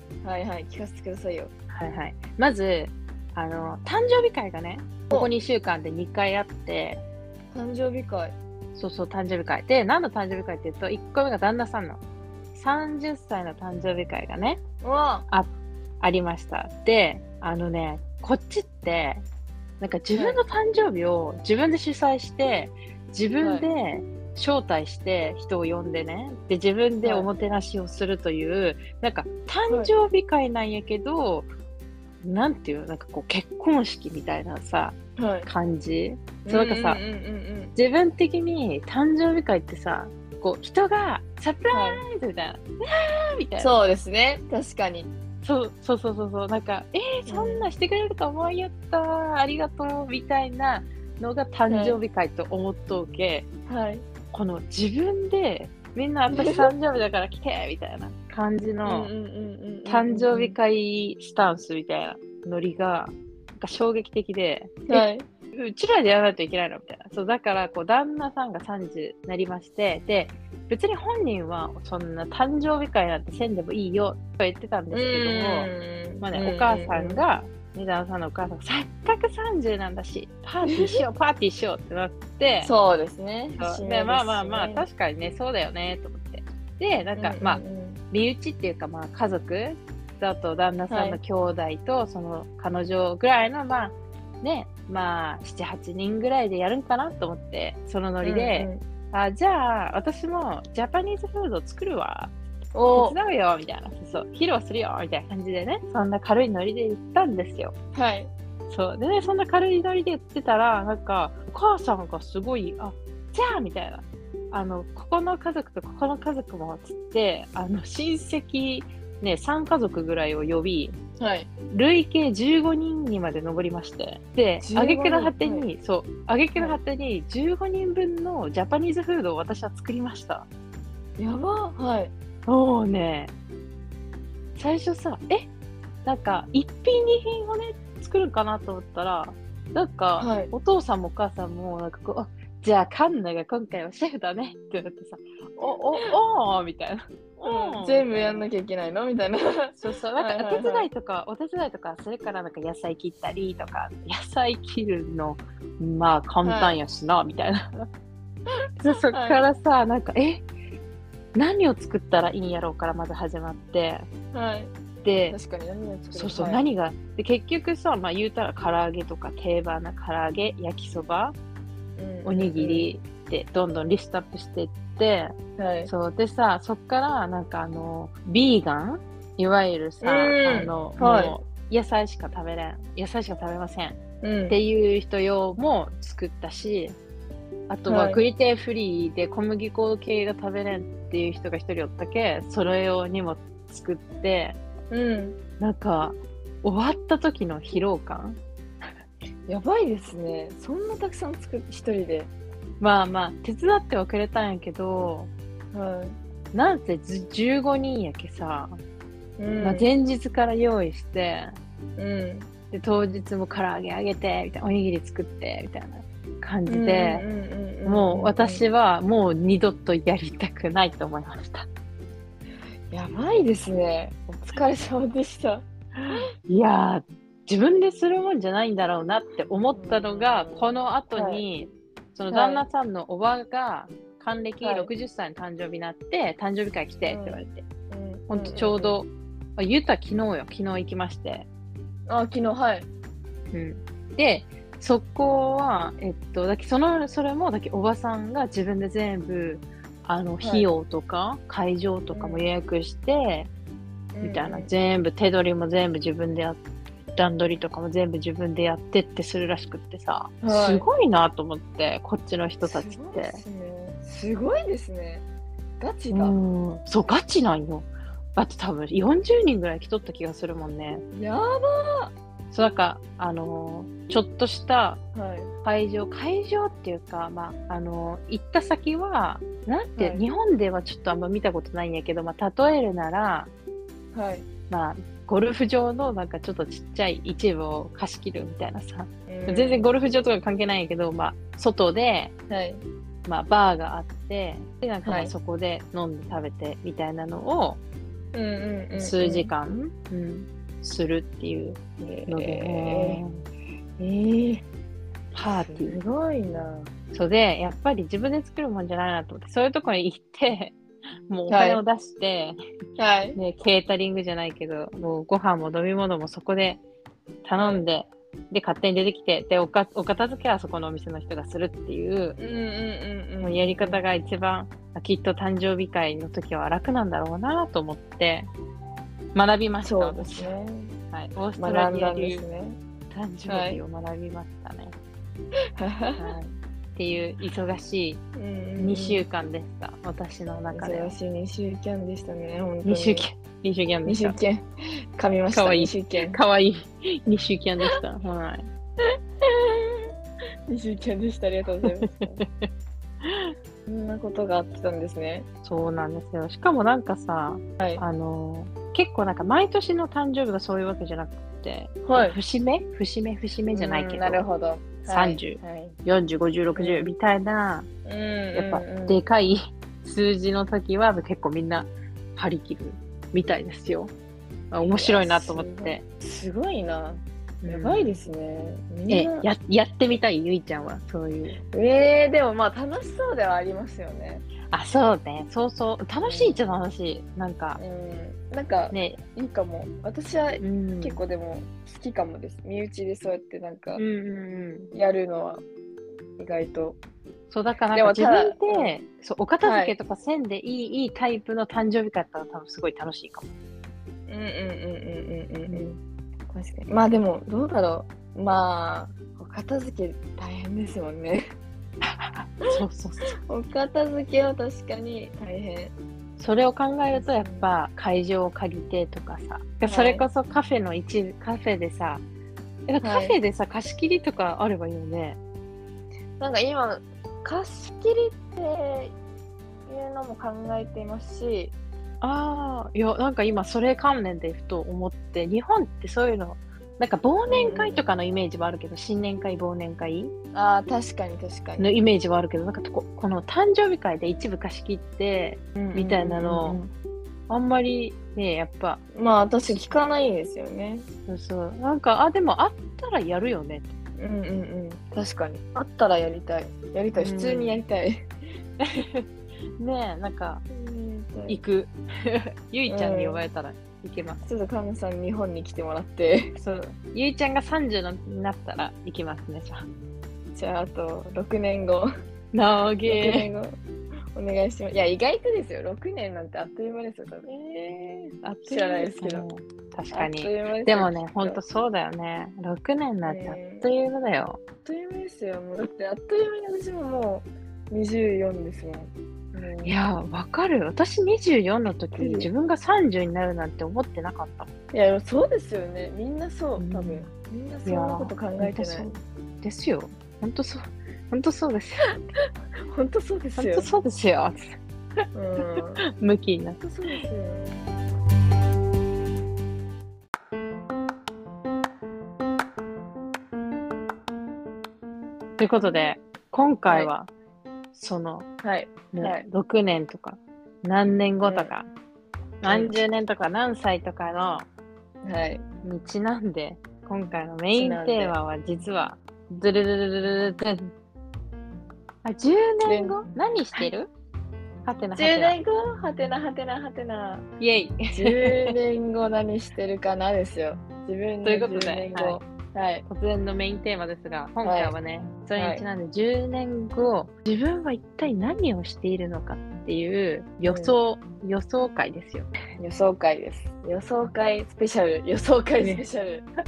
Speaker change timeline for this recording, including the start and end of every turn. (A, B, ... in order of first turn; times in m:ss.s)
0:00.2-0:01.5 A
0:01.7-0:07.0 B
0:07.5-0:08.4 A
0:08.7-0:12.0 B
0:12.5-0:14.6 B
0:14.8-0:15.2 A
0:15.3-0:19.2 B
0:19.8-0:31.5 B
0:20.1-0:20.4 A
0:23.4-0:23.7 A
0:27.0-0:27.3 A
0:32.2-0:37.0 B
0:35.2-0:35.5 A
0:36.4-0:37.7 A
0:37.7-0:43.7 B
0:41.7-0:42.0 A
0:43.6-0:45.1 A
0:45.4-0:53.5 B
0:47.3-0:47.7 A
0:51.7-0:52.0 A
0:53.7-0:54.0 A
0:54.3-0:59.1 B
0:56.3-0:56.7 A
0:58.8-1:00.6 A
0:59.8-1:15.7 B
1:04.9-1:05.3 A
1:14.9-1:17.2 A
1:16.2-1:22.7 B
1:20.7-1:21.0 A
1:22.6-1:24.9 A
1:23.6-1:42.3 B
1:27.2-1:28.0 A
1:30.9-1:31.2 A
1:38.2-1:38.8 A
1:42.7-1:43.2 A
1:42.9-1:47.7 B
1:47.9-1:48.3 A
1:48.7-2:01.0 B
2:01.2-2:01.5 A
2:01.7-2:10.5 B
2:04.6-2:05.7 A
2:11.2-2:12.1 A
2:12.5-2:13.3 B
2:14.6-2:15.5 B
2:16.0-2:28.5 B
2:20.2-2:20.5 A
2:27.4-2:30.9 A
2:29.8-2:37.9 B
2:36.4-2:36.8 A
2:38.8-2:40.4 B
2:38.9-2:39.4 A
2:41.3-2:44.1 B
2:44.3-2:44.7 A
2:45.0-2:45.4 B
2:45.2-2:46.6 A
2:46.1-2:51.4 B
2:52.0-2:52.9 A
2:52.2-2:55.3 B
2:55.6-2:55.9 A
2:55.8-3:07.0 B
3:00.0-3:01.4 A
3:04.2-3:04.6 A
3:07.7-3:14.6 B
3:07.9-3:08.2 A
3:14.9-3:15.4 A
3:15.6-3:18.4 B
3:19.5-3:22.3 A
3:22.8-3:25.3 B
3:25.7-3:26.2 A
3:26.5-3:28.8 B
3:29.4-3:29.9 A
3:29.6-3:31.6 B
3:32.0-3:32.5 A
3:32.7-3:37.2 B
3:36.7-3:38.6 A
3:37.8-3:41.7 B
3:42.9-3:46.2 A
3:46.0-3:57.6 B
3:49.7-3:51.4 A
3:52.3-3:52.6 A
3:54.6-3:54.9 A
3:57.0-3:59.0 A
3:58.3-4:01.5 B
4:02.1-4:02.9 A
4:03.5-4:13.5 B
4:10.4-4:10.7 A
4:12.1-4:12.5 A
4:14.1-4:14.7 A
4:14.2-4:16.6 B
4:17.1-4:23.4 B
4:20.4-4:20.8 A
4:22.6-4:25.2 A
4:25.8-4:26.3 A
4:26.1-4:31.0 B
4:31.1-4:32.1 A
4:32.5-4:35.0 B
4:35.1-4:35.5 A
4:35.6-4:43.5 B
4:40.0-4:40.2 A
4:44.1-4:44.4 A
4:44.7-4:52.3 B
4:49.3-4:49.9 A
4:52.5-4:52.8 A
4:53.2-4:57.8 B
4:55.0-4:55.3 A
4:58.3-4:59.5 A
4:59.0-5:03.4 B
5:02.0-5:03.2 A
5:04.0-5:04.6 A
5:05.3-5:06.0 B
5:05.4-5:06.9 A
5:07.1-5:10.8 B
5:11.3-5:12.6 B
5:11.5-5:11.8 A
5:13.0-5:13.4 A
5:13.4-5:16.8 B
5:17.4-5:22.4 B
5:17.6-5:17.8 A
5:22.4-5:24.0 A
5:23.4-5:28.5 B
5:29.3-5:30.5 B
5:29.8-5:30.9 A
5:31.1-5:32.4 B
5:31.6-5:32.8 A
5:33.1-5:35.0 B
5:33.5-5:33.8 A
5:35.8-5:36.4 A
5:36.2-5:38.2 B
5:38.3-5:39.2 A
5:38.8-5:41.2 B
5:40.7-5:43.3 A
5:42.8-5:44.4 B
5:44.0-5:44.6 A
5:45.2-5:46.4 A
5:45.5-5:48.7 B
5:49.4-5:50.1 A
5:50.7-5:52.4 A
5:51.8-5:52.7 B
5:53.2-5:53.5 B
5:53.8-5:55.4 A
5:55.6-6:04.4 B
6:02.0-6:02.4 A
6:03.7-6:06.0 A
6:05.1-6:07.9 B
6:06.7-6:07.1 A
6:08.0-6:09.2 A
6:08.5-6:14.1 B
6:14.7-6:16.0 B
6:14.8-6:19.5 A
6:17.6-6:18.2 B
6:19.1-6:21.6 B
6:21.7-6:24.4 A
6:24.7-6:27.8 B
6:26.2-6:26.6 A
6:27.8-6:34.0 A
6:28.9-6:29.2 B
6:30.6-6:31.2 B
6:34.0-6:34.9 B
6:34.9-6:35.6 A
6:36.4-6:37.0 A
6:37.5-6:43.5 B
6:37.9-6:38.9 A
6:39.6-6:39.9 A
6:44.3-6:46.0 A
6:46.5-6:51.5 A
6:52.0-6:53.3 B
6:53.4-6:55.9 A
6:56.4-7:02.2 B
6:57.1-6:57.7 A
6:59.8-7:00.2 A
7:02.9-7:05.4 B
7:03.0-7:03.4 A
7:06.4-7:09.1 A
7:09.9-7:11.7 A
7:12.2-7:20.3 B
7:17.5-7:18.0 A
7:20.5-7:21.9 A
7:21.8-7:26.8 B
7:25.8-7:26.9 A
7:27.5-7:29.0 B
7:29.1-7:31.0 A
7:31.3-7:33.9 B
7:34.2-7:38.3 A
7:37.2-7:37.8 B
7:38.8-7:39.2 B
7:39.8-7:40.6 B
7:40.7-7:41.6 A
7:41.5-7:44.4 B
7:42.9-7:43.4 A
7:44.4-7:46.5 A
7:46.6-7:49.8 B
7:50.5-7:52.1 A
7:52.5-7:53.5 B
7:53.0-7:53.8 A
7:54.3-7:59.4 A
7:57.5-7:57.8 B
7:58.4-8:04.6 B
8:00.1-8:01.6 A
8:03.2-8:03.9 A
8:04.8-8:10.0 A
8:09.8-8:14.7 B
8:12.1-8:12.5 A
8:14.9-8:19.1 A
8:16.8-8:17.3 B
8:17.8-8:22.1 B
8:22.9-8:23.9 A
8:23.6-8:24.8 B
8:25.3-8:26.0 A
8:26.1-8:26.8 B
8:26.8-8:27.8 A
8:35.6-8:37.3 B
8:37.9-8:38.5 B
8:38.6-8:39.4 A
8:39.1-8:41.9 B
8:41.4-8:41.7 A
8:42.6-8:44.6 B
8:42.6-8:43.0 A
8:45.2-8:45.6 A
8:45.8-8:50.9 B
8:47.7-8:48.4 A
8:52.2-8:54.1 B
8:52.8-8:53.2 A
8:54.8-8:55.6 B
8:55.2-8:57.4 A
8:57.6-8:58.7 B
8:58.1-9:03.0 A
9:01.4-9:02.4 B
9:03.1-9:12.5 B
9:04.6-9:04.9 A
9:05.5-9:05.8 A
9:10.6-9:11.0 A
9:12.8-9:16.4 A